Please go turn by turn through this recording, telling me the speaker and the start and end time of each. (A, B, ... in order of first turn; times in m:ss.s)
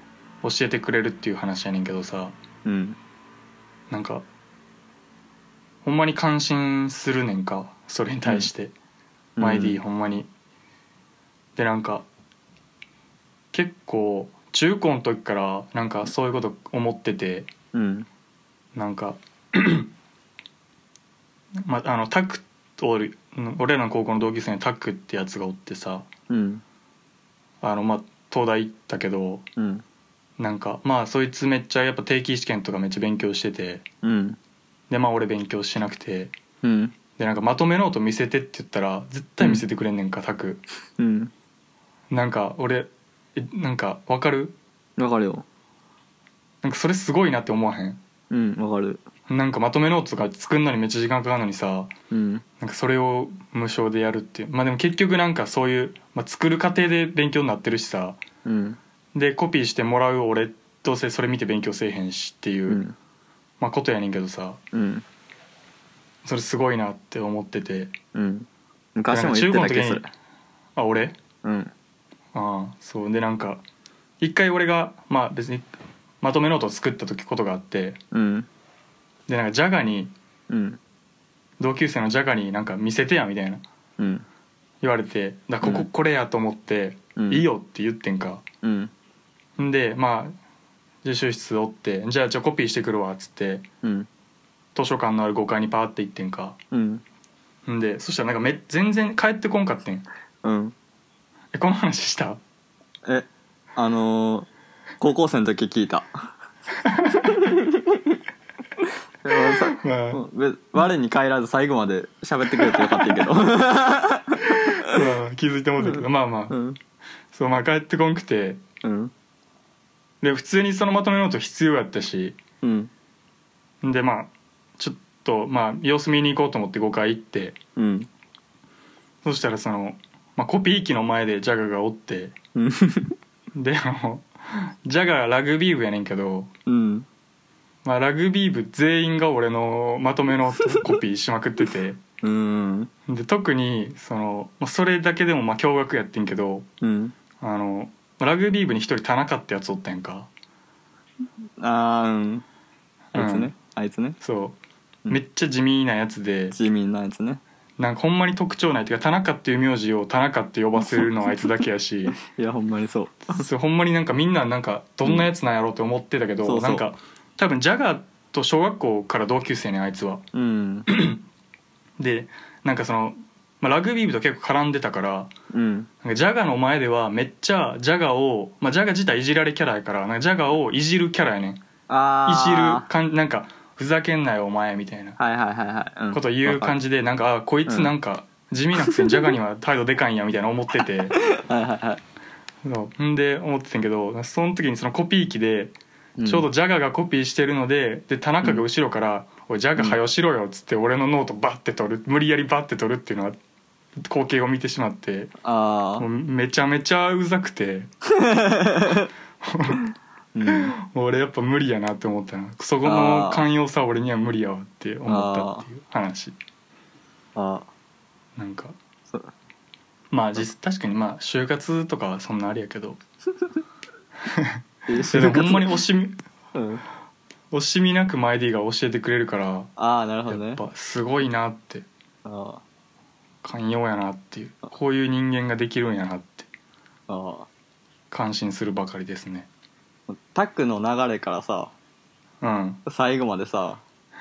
0:00.4-0:02.4 A
0:02.6-0:03.0 B
0:03.9-0:04.2 A
0:05.8-0:08.7 A
0:09.4-0:09.8 B
0:09.4-0:10.3 A
0:11.6-0:12.0 A
0:13.5-0:17.5 A
0:17.7-0:18.1 B
0:18.7-0:19.9 A
0:21.6-0:26.1 A
0:26.3-0:26.6 B
0:27.6-0:29.5 A
0:29.6-0:29.8 B
0:30.4-0:33.8 A
0:34.0-0:34.4 B
0:34.9-0:36.3 A
0:36.6-0:36.9 B
0:37.2-0:40.6 A
0:41.0-0:41.3 B
0:42.1-0:44.6 A
0:45.0-0:45.4 B
0:46.6-0:48.0 A
0:48.3-0:49.0 B
0:49.3-0:51.9 A
0:52.1-0:52.4 B
0:52.6-0:58.2 A
0:58.4-0:58.8 B
0:59.1-1:02.8 A
1:02.7-1:02.9 B
1:03.6-1:04.6 A
1:04.7-1:05.0 B
1:06.2-1:07.9 A
1:08.1-1:10.1 B
1:09.1-1:10.1 A
1:10.8-1:11.1 A
1:11.4-1:11.7 B
1:12.3-1:13.6 A
1:14.2-1:15.7 A
1:16.2-1:18.0 A
1:18.1-1:18.5 B
1:19.3-1:20.1 A
1:20.5-1:20.8 B
1:21.6-1:23.6 A
1:24.0-1:24.2 B
1:24.8-1:28.4 A
1:25.6-1:25.9 B
1:27.2-1:27.5 B
1:28.6-1:28.9 B
1:29.6-1:30.4 A
1:31.0-1:33.6 A
1:33.8-1:34.1 B
1:34.7-1:36.6 A
1:36.7-1:37.0 B
1:37.6-1:40.0 A
1:40.4-1:40.7 B
1:41.5-1:42.4 A
1:43.0-1:44.5 B
1:45.0-1:46.3 B
1:46.9-1:47.2 A
1:47.2-1:48.0 B
1:49.2-1:55.0 B
1:49.5-1:50.2 A
1:52.7-1:53.2 A
1:54.6-1:56.6 A
1:56.5-1:56.8 B
1:57.3-1:58.6 A
1:58.8-1:59.1 B
2:00.2-2:02.4 A
2:02.6-2:02.9 B
2:03.8-2:07.6 A
2:07.8-2:08.1 B
2:09.2-2:12.3 A
2:12.6-2:13.1 B
2:13.5-2:16.5 A
2:16.7-2:17.1 B
2:17.8-2:22.0 A
2:22.2-2:22.9 B
2:23.1-2:26.7 A
2:26.8-2:27.1 B
2:27.4-2:30.3 A
2:31.6-2:32.4 B
2:33.1-2:33.5 A
2:33.1-2:34.2 B
2:34.2-2:36.6 A
2:36.5-2:37.4 B
2:37.8-2:42.2 A
2:41.0-2:41.4 B
2:42.3-2:43.4 B
2:43.3-2:50.2 A
2:45.0-2:45.3 B
2:46.4-2:46.9 B
2:50.3-2:50.9 B
2:50.9-2:51.2 A
2:52.0-2:55.3 A
2:55.5-2:55.9 B
2:56.0-3:01.6 A
3:01.9-3:02.9 B
3:02.2-3:05.2 A
3:05.2-3:06.8 B
3:06.1-3:11.2 A
3:07.7-3:07.9 B
3:11.4-3:12.0 B
3:12.6-3:23.4 A
3:16.2-3:16.5 B
3:24.0-3:25.3 A
3:25.4-3:26.1 B
3:26.0-3:27.9 A
3:28.2-3:29.1 B
3:29.4-3:29.8 A
3:30.3-3:30.7 B
3:30.5-3:36.4 A
3:32.8-3:33.5 B
3:35.1-3:35.6 B
3:37.4-3:37.7 B
3:38.4-3:38.7 A
3:40.1-3:43.0 A
3:44.3-3:44.6 A
3:44.9-3:45.7 B
3:45.1-3:46.2 A
3:46.5-3:46.8 B
3:47.5-3:49.7 A
3:49.8-3:50.6 B
3:50.3-3:51.9 A
3:52.2-3:52.6 B
3:53.4-3:56.5 A
3:57.1-3:57.5 B
3:58.1-3:59.5 A
4:00.1-4:01.7 B
4:02.4-4:02.8 A
4:02.9-4:03.8 B